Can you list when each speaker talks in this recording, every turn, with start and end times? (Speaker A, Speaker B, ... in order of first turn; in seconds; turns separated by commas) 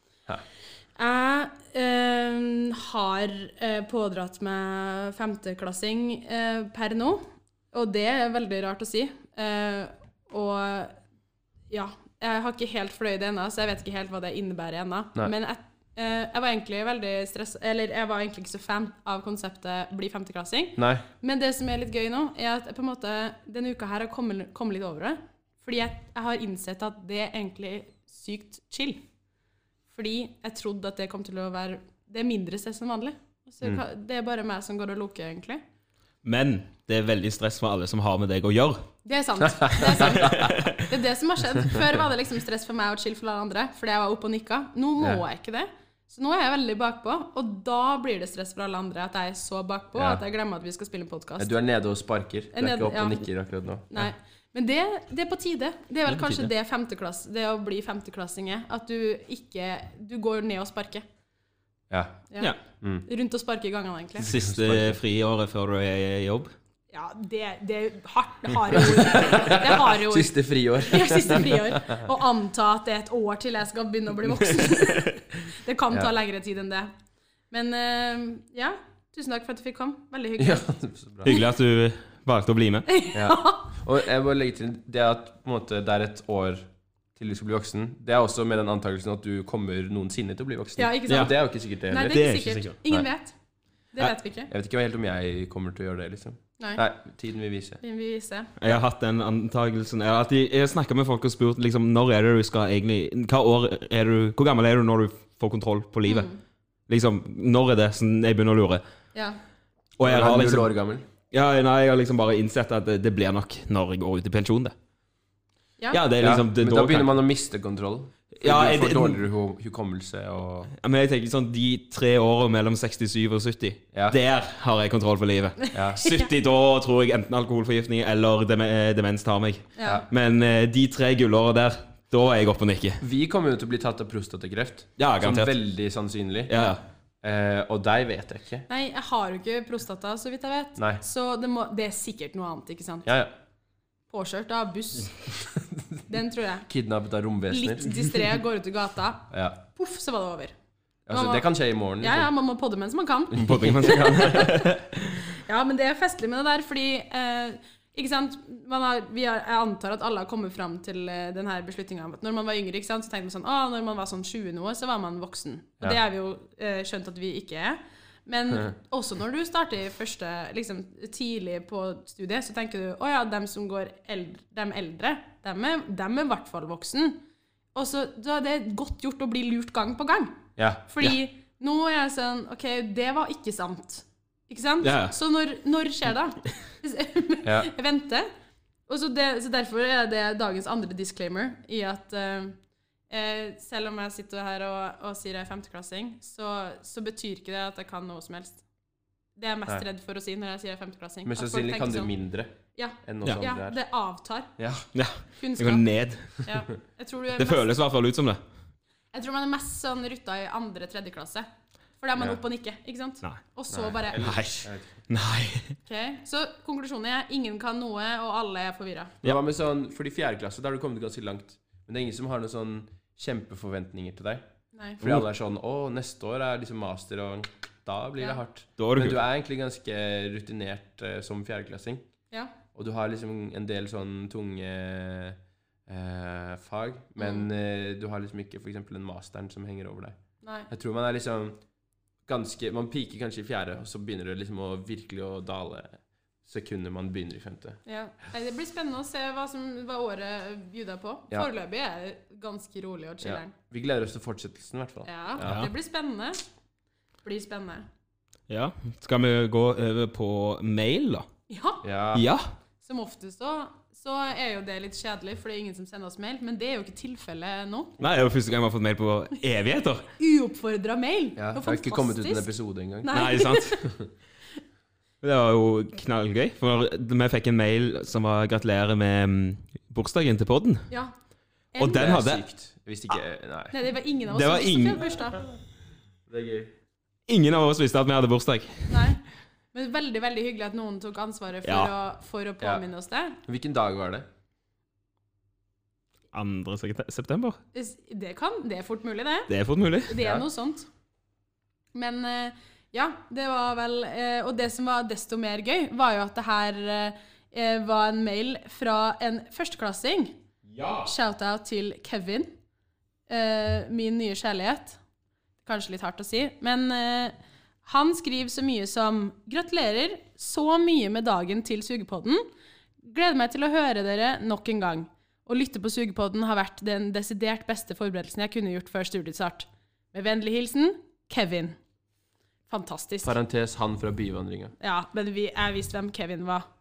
Speaker A: 1.0-10.9, Speaker A: 11.7-29.0, Speaker B: 20.8-21.0, Speaker A: 29.9-35.6, Speaker C: 36.2-38.8, Speaker A: 39.0-51.5, Speaker B: 39.5-40.5, Speaker C: 40.2-40.8, Speaker B: 50.0-50.2, Speaker B: 51.4-54.0, Speaker A: 52.5-53.3, Speaker A: 53.9-61.0, Speaker B: 56.1-56.5, Speaker B: 61.9-62.2, Speaker B: 62.8-63.1, Speaker A: 63.1-64.3, Speaker B: 64.2-65.0, Speaker C: 64.2-66.5, Speaker A: 66.9-76.9, Speaker B: 69.0-72.1, Speaker C: 74.7-75.2, Speaker A: 77.5-80.7, Speaker B: 80.4-81.3, Speaker C: 81.3-82.9, Speaker A: 82.9-83.8, Speaker B: 83.1-92.2, Speaker A: 90.8-91.4, Speaker C: 91.1-91.3, Speaker A: 91.9-93.4, Speaker C: 92.0-92.8, Speaker A: 93.9-94.5, Speaker B: 94.5-97.8, Speaker A: 97.8-98.5, Speaker C: 98.6-106.3, Speaker A: 106.1-106.4, Speaker C: 106.9-108.8, Speaker C: 110.0-110.7, Speaker B: 110.0-111.0, Speaker C: 111.3-114.8, Speaker C: 115.9-117.1, Speaker B: 116.2-120.7, Speaker C: 118.4-119.2, Speaker C: 120.8-133.0, Speaker A: 125.6-126.3, Speaker B: 125.7-126.0, Speaker A: 129.8-130.0, Speaker B: 133.0-136.5, Speaker C: 135.0-135.5, Speaker C: 136.5-136.8, Speaker B: 137.2-138.7, Speaker A: 138.7-143.1, Speaker B: 140.8-141.0, Speaker B: 143.1-143.3, Speaker A: 144.1-145.3, Speaker A: 146.1-146.7, Speaker B: 146.7-148.2, Speaker A: 147.5-150.5, Speaker B: 149.3-149.6, Speaker B: 151.1-152.3, Speaker A: 151.1-151.5, Speaker A: 152.0-154.7, Speaker C: 153.3-155.2, Speaker B: 153.4-154.3, Speaker A: 155.3-177.2, Speaker A: 177.8-188.3, Speaker B: 180.6-180.8, Speaker C: 184.8-185.1, Speaker B: 187.4-187.7, Speaker A: 188.9-192.6, Speaker A: 193.1-198.6, Speaker A: 199.4-202.1, Speaker B: 201.2-202.5, Speaker A: 202.8-204.5, Speaker B: 203.0-203.8, Speaker B: 204.6-204.9, Speaker C: 204.9-206.4, Speaker A: 205.4-207.7, Speaker C: 207.4-208.4, Speaker A: 209.1-211.5, Speaker A: 212.0-214.4, Speaker B: 213.7-215.0, Speaker C: 214.1-215.8, Speaker A: 215.8-219.2, Speaker B: 219.2-224.4, Speaker A: 224.7-225.0, Speaker B: 225.0-232.0, Speaker C: 228.8-229.2, Speaker B: 232.7-240.2, Speaker A: 240.4-240.7, Speaker B: 240.7-241.6, Speaker B: 242.3-247.8, Speaker A: 247.8-253.5, Speaker B: 253.2-255.6, Speaker A: 255.1-256.4, Speaker C: 255.4-255.7, Speaker A: 257.2-257.9, Speaker C: 258.5-261.3, Speaker A: 261.5-261.9, Speaker B: 261.8-262.3, Speaker C: 262.1-262.4, Speaker A: 262.8-267.9, Speaker C: 268.0-270.1, Speaker A: 270.2-272.5, Speaker B: 271.4-273.2, Speaker A: 273.0-273.9, Speaker C: 273.1-273.8, Speaker C: 275.2-280.9, Speaker A: 281.7-282.1, Speaker C: 281.8-282.4, Speaker B: 281.9-283.8, Speaker A: 283.7-285.4, Speaker C: 284.3-285.1, Speaker B: 286.3-286.7, Speaker C: 287.3-289.0, Speaker A: 288.9-289.2, Speaker A: 289.7-293.4, Speaker C: 291.6-291.9, Speaker B: 293.5-294.3, Speaker C: 296.3-297.6, Speaker A: 297.7-299.5, Speaker C: 299.5-300.2, Speaker A: 300.1-300.9, Speaker B: 300.2-300.5, Speaker A: 301.9-310.4, Speaker C: 310.7-311.1, Speaker A: 311.1-312.5, Speaker A: 313.3-315.0, Speaker A: 315.6-322.5, Speaker A: 323.0-331.8, Speaker A: 332.7-333.4, Speaker B: 333.2-334.7, Speaker A: 334.8-336.7